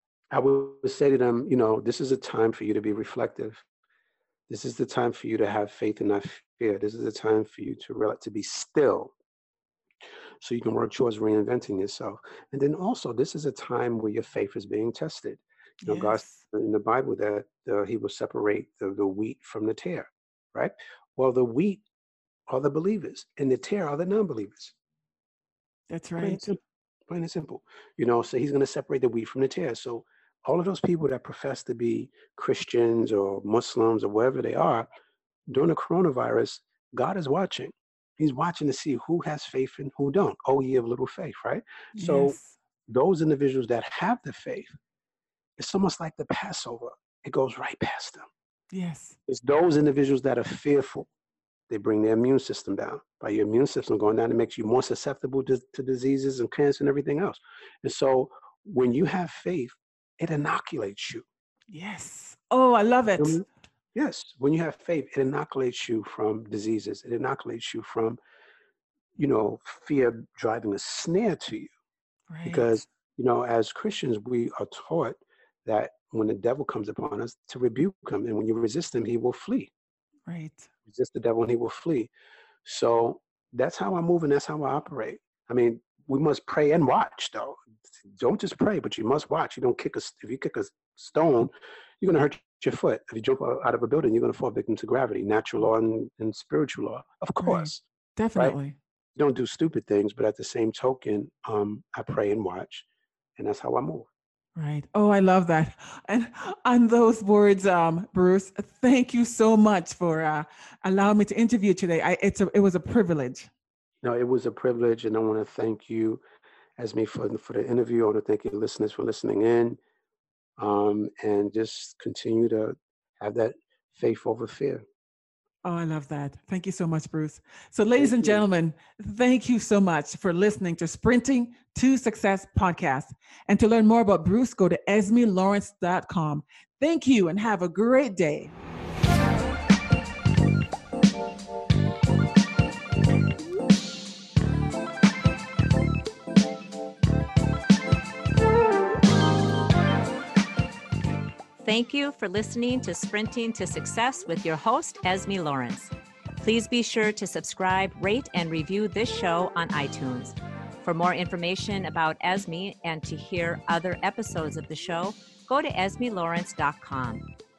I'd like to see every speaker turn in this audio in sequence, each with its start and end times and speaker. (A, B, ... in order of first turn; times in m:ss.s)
0:00.3-0:03.6 A
0:04.5-0:09.1 A
0:10.4-0:21.8 A
0:15.8-0:16.4 B
0:22.5-0:24.8 A
0:25.9-0:26.5 B
0:26.2-0:34.9 A
0:35.5-0:42.4 A
0:42.0-0:42.6 B
0:42.9-0:44.8 A
0:45.6-0:48.3 A
0:48.7-0:49.2 B
0:49.3-0:51.1 A
0:51.7-1:01.2 A
1:01.7-1:03.4 B
1:03.2-1:08.2 A
1:09.2-1:11.7 A
1:12.3-1:12.8 B
1:12.4-1:19.7 A
1:20.3-1:20.7 B
1:20.9-1:22.1 A
1:22.6-1:37.8 A
1:37.4-1:38.8 B
1:39.2-1:42.9 A
1:43.4-1:44.1 A
1:44.6-1:53.5 B
1:54.0-1:56.2 A
1:56.8-1:59.8 A
2:00.6-2:04.8 A
2:05.6-2:18.5 B
2:08.0-2:08.4 A
2:31.6-2:47.3 C